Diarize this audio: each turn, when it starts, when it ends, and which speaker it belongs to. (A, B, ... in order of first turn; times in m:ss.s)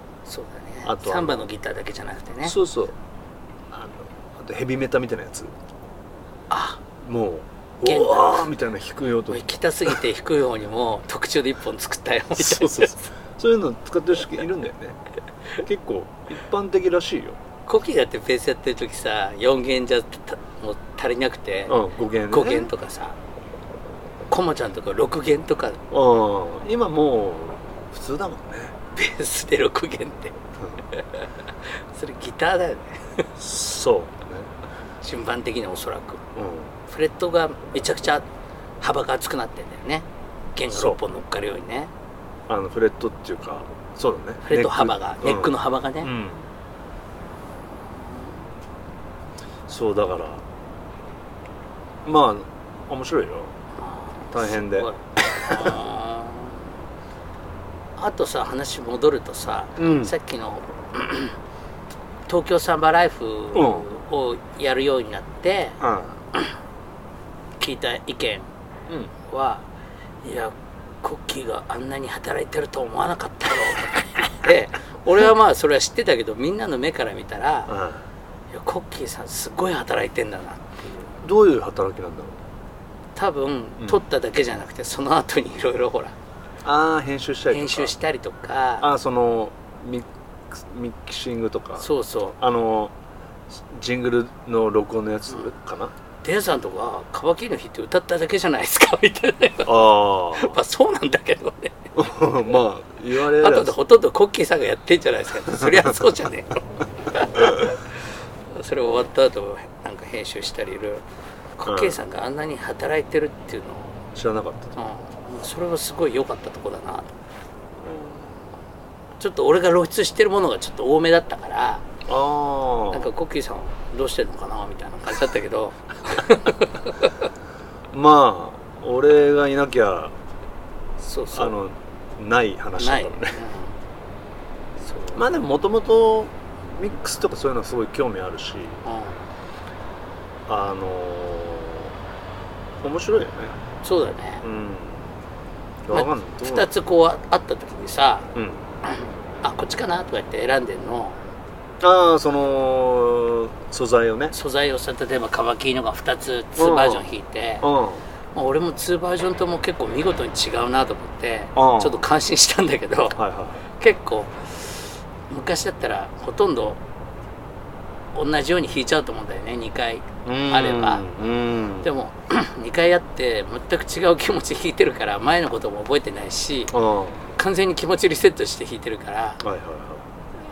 0:00.3-0:02.6 A
0:00.8-0:01.5 B
0:02.4-0:03.0 B
0:03.7-0:05.5 B
0:06.5-0:06.8 A
0:07.0-0:10.0 B
0:07.8-0:08.5 A
0:09.3-0:13.0 A
0:12.3-0:15.0 B
0:15.6-0:17.4 B
0:17.7-0:21.8 A
0:21.7-0:22.7 B
0:22.3-0:23.2 A
0:24.3-0:25.8 A
0:25.9-0:28.8 B
0:28.9-0:30.4 A
0:30.9-0:33.3 A
0:33.4-0:34.5 B
0:35.0-0:36.2 A
0:36.4-0:36.7 B
0:36.9-0:38.2 A
0:38.8-0:41.9 A
0:40.7-0:41.0 B
0:42.5-0:46.5 B
0:44.4-0:46.1 A
0:48.0-0:48.3 A
0:49.7-0:50.4 B
0:52.0-0:53.5 B
0:53.8-0:56.7 A
0:54.3-0:55.8 B
0:58.0-1:01.4 A
0:59.8-1:00.1 B
1:02.3-1:05.8 A
1:03.5-1:03.9 B
1:05.8-1:06.2 B
1:07.6-1:08.5 A
1:09.3-1:09.7 A
1:10.2-1:17.7 A
1:17.7-1:18.1 B
1:18.5-1:21.1 A
1:21.2-1:22.4 B
1:23.2-1:26.2 A
1:26.6-1:27.9 B
1:27.5-1:28.9 A
1:28.8-1:32.9 B
1:31.8-1:32.4 A
1:33.5-1:35.9 B
1:36.2-1:41.8 A
1:39.6-1:40.6 B
1:42.0-1:43.8 B
1:43.3-1:47.9 A
1:45.5-1:45.9 B
1:48.5-1:51.0 A
1:51.6-1:54.0 A
1:51.7-1:52.0 B
1:54.1-1:54.7 B
1:54.8-1:57.2 A
1:57.8-1:58.5 B
1:59.2-2:01.8 A
2:02.1-2:03.1 B
2:02.9-2:07.2 A
2:07.9-2:10.2 B
2:11.0-2:11.6 A
2:11.3-2:13.4 B
2:12.8-2:13.8 A
2:14.8-2:15.2 A
2:15.1-2:18.8 B
2:18.8-2:19.3 A
2:20.5-2:21.9 B
2:22.8-2:23.6 B
2:23.8-2:24.5 A
2:24.4-2:25.1 B
2:25.8-2:26.7 B
2:25.9-2:28.3 A
2:28.4-2:28.7 B
2:28.8-2:31.2 A
2:31.8-2:34.4 B
2:34.3-2:37.7 A
2:36.6-2:37.1 B
2:37.6-2:38.0 B
2:38.3-2:43.2 A
2:41.6-2:42.0 B
2:43.2-2:43.6 B
2:43.8-2:46.8 A
2:48.1-2:51.0 A
2:50.2-2:51.9 B
2:51.8-2:56.7 A
2:56.7-2:57.3 B
2:57.4-2:59.4 A
2:59.4-3:00.1 B